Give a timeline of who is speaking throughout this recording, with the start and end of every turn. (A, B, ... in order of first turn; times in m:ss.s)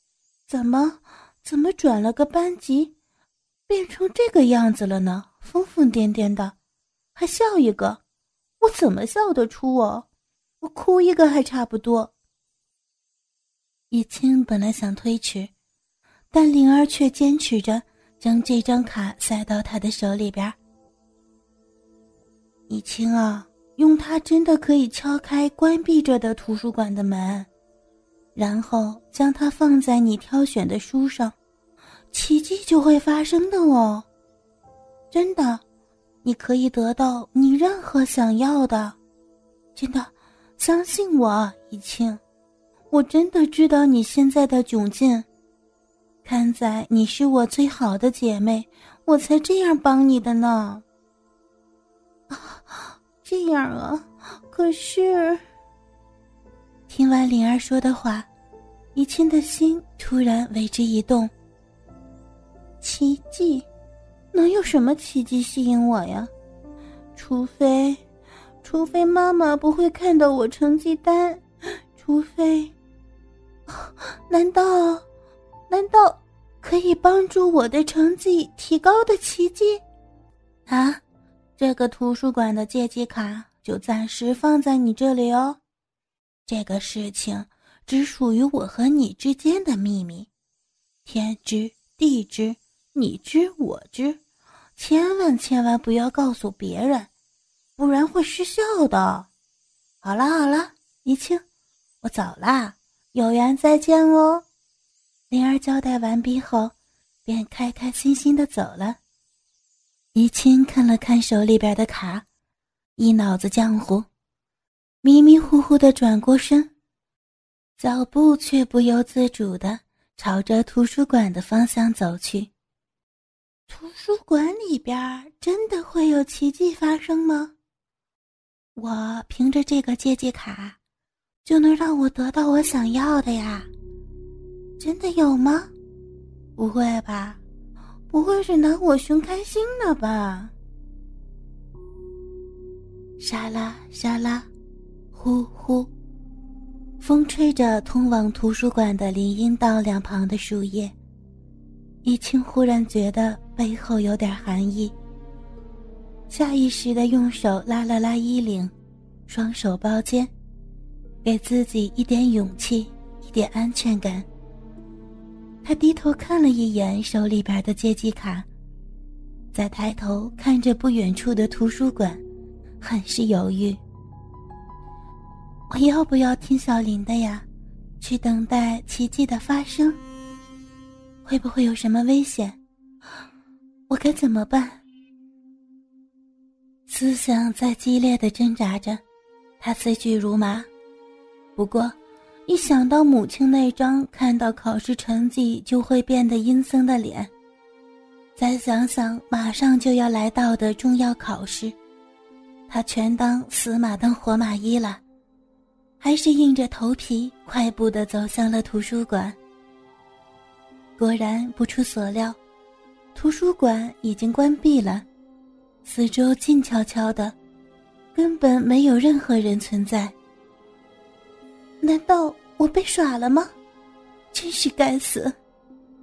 0:00.5-0:02.9 A
0:03.7-0:06.6 A
0:07.2-0:08.0 A
0:08.6-0:10.1 A
0:10.6-0:12.1 A
0:13.9-0:15.5 A
0:16.3-0:20.6 A
0:22.7-0:27.5 A
0:28.4-0:31.4 A
0:32.1-0:34.1 A
0:35.1-0:35.6 A
0:36.2-0:39.0 A
0:39.8-0:42.2 A
0:42.9-0:45.3 A
0:46.2-0:50.8 A
0:52.3-0:55.4 A
0:56.9-0:58.3 A
0:59.0-1:01.3 A
1:02.8-1:03.7 A
1:04.3-1:06.3 A
1:07.2-1:08.0 A
1:08.6-1:12.7 A
1:13.7-1:15.0 A
1:15.7-1:19.8 A
1:20.7-1:21.0 A
1:21.6-1:25.6 A
1:26.5-1:30.3 A
1:31.0-1:34.2 A
1:34.8-1:37.1 A
1:37.8-1:39.3 A
1:40.0-1:41.4 A
1:42.0-1:44.4 A
1:45.3-1:46.7 A
1:47.3-1:49.0 A
1:50.2-1:52.3 A
1:53.0-1:54.1 A
1:55.0-1:56.7 A
1:57.8-2:02.5 A
2:03.7-2:07.5 A
2:08.8-2:10.8 A
2:11.4-2:13.7 A
2:14.8-2:15.7 A
2:16.6-2:17.4 A
2:18.1-2:20.5 A
2:23.2-2:24.5 A
2:25.1-2:25.9 A
2:27.0-2:30.9 A
2:32.0-2:34.9 A
2:36.3-2:38.7 A
2:39.3-2:40.3 A
2:41.2-2:44.3 A
2:45.6-2:48.5 A
2:49.5-2:52.2 A
2:52.8-2:53.8 A
2:55.7-2:57.5 A
2:58.0-3:00.0 A
3:01.2-3:02.6 A
3:03.9-3:04.8 A
3:06.9-3:09.0 A
3:09.6-3:10.7 A
3:11.6-3:12.0 A
3:12.5-3:17.3 A
3:18.4-3:21.8 A
3:22.7-3:25.0 A
3:26.0-3:29.4 A
3:31.0-3:32.4 A
3:33.2-3:35.1 A
3:35.8-3:37.4 A
3:38.1-3:40.2 A
3:41.8-3:43.5 A
3:44.3-3:45.4 A